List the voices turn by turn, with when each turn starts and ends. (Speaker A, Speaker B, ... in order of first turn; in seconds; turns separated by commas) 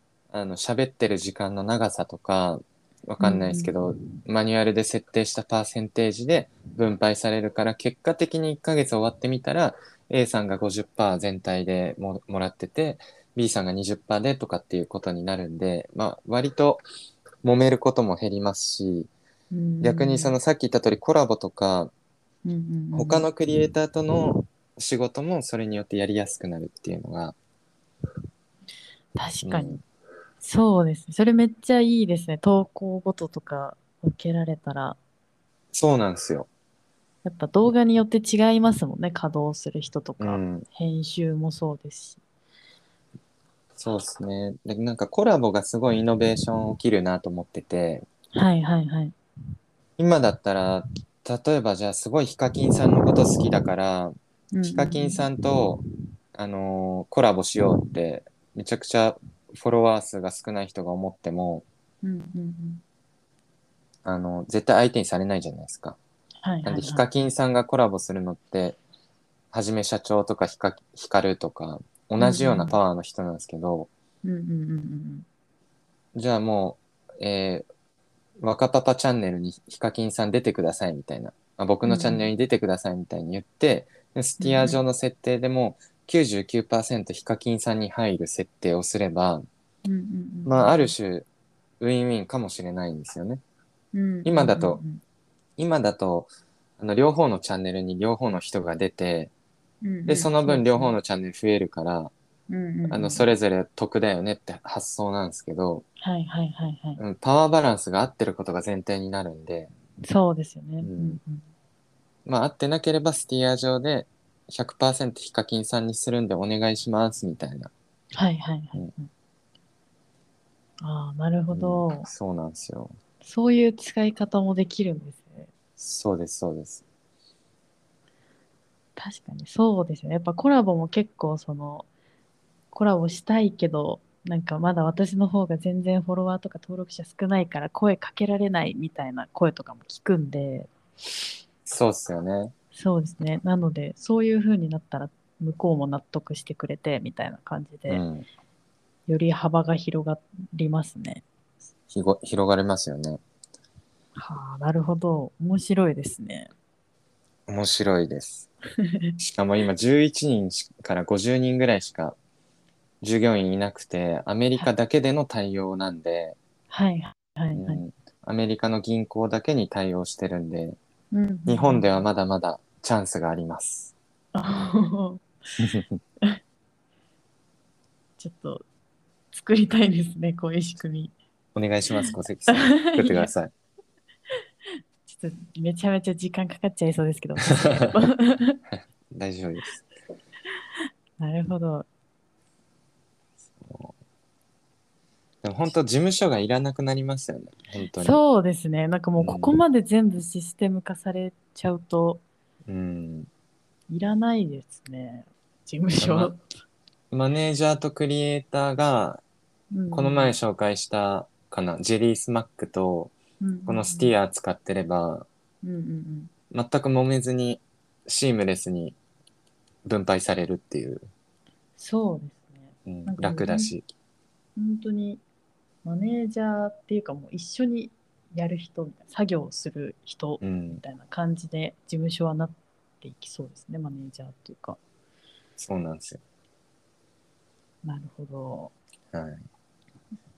Speaker A: 0.3-16.8, Speaker B: 3.2-3.7, Speaker A: 17.4-19.1, Speaker B: 19.5-20.4, Speaker A: 19.8-21.9, Speaker B: 22.4-23.3, Speaker A: 22.9-27.3, Speaker B: 29.1-29.8, Speaker A: 29.4-29.8, Speaker B: 30.4-35.0, Speaker A: 35.7-36.5, Speaker B: 37.2-42.2, Speaker A: 40.2-40.6, Speaker A: 43.8-48.0, Speaker B: 48.3-49.1, Speaker A: 50.0-55.8, Speaker B: 54.5-55.2, Speaker A: 56.3-61.6, Speaker B: 62.0-62.8, Speaker A: 64.0-66.0, Speaker B: 66.4-67.1, Speaker A: 66.6-68.8, Speaker A: 69.5-73.9, Speaker B: 72.2-72.8, Speaker B: 74.2-75.2, Speaker A: 76.1-77.7, Speaker A: 78.4-89.4, Speaker B: 81.8-82.3, Speaker B: 84.4-84.8, Speaker B: 89.8-90.9, Speaker A: 90.5-91.3, Speaker A: 91.8-93.4, Speaker B: 93.9-95.0, Speaker A: 94.2-94.8, Speaker A: 95.6-99.3, Speaker B: 99.8-100.9, Speaker A: 100.0-102.1, Speaker B: 102.5-103.3, Speaker A: 102.9-105.8, Speaker B: 106.0-107.0, Speaker A: 107.0-109.7, Speaker B: 110.0-111.4, Speaker A: 110.8-111.2, Speaker A: 112.2-117.7, Speaker B: 118.1-119.1, Speaker B: 120.8-122.1, Speaker A: 121.5-123.0, Speaker B: 123.2-125.5, Speaker A: 125.8-126.8, Speaker B: 128.9-131.9, Speaker B: 132.7-140.7, Speaker A: 141.7-142.5, Speaker B: 142.7-148.0, Speaker A: 147.9-148.3, Speaker B: 149.1-151.2, Speaker A: 151.9-153.2, Speaker B: 154.1-156.5, Speaker A: 157.5-158.5, Speaker B: 158.8-159.1, Speaker A: 159.2-162.2, Speaker A: 163.0-166.3, Speaker B: 166.7-167.8, Speaker A: 167.5-170.8, Speaker B: 171.1-172.0, Speaker A: 171.5-173.9, Speaker B: 174.3-175.2, Speaker B: 178.2-178.6, Speaker B: 179.3-181.1, Speaker A: 181.5-183.5, Speaker B: 182.1-183.3, Speaker B: 185.1-188.6, Speaker A: 188.7-189.8, Speaker B: 191.2-191.9, Speaker A: 193.6-193.9, Speaker A: 195.4-198.2, Speaker B: 198.0-202.2, Speaker A: 199.2-199.6, Speaker A: 202.7-203.3, Speaker B: 203.9-206.4, Speaker A: 206.0-206.3, Speaker A: 207.1-209.2, Speaker B: 209.7-210.3, Speaker A: 209.9-213.1, Speaker B: 213.4-214.1, Speaker A: 213.7-215.3, Speaker B: 215.6-216.3, Speaker A: 216.5-219.0, Speaker A: 219.8-221.1, Speaker B: 221.8-223.7, Speaker A: 222.8-223.9, Speaker B: 224.6-225.2, Speaker B: 225.8-234.8, Speaker A: 230.4-230.8, Speaker A: 235.6-236.2, Speaker B: 237.8-238.7, Speaker A: 239.1-239.5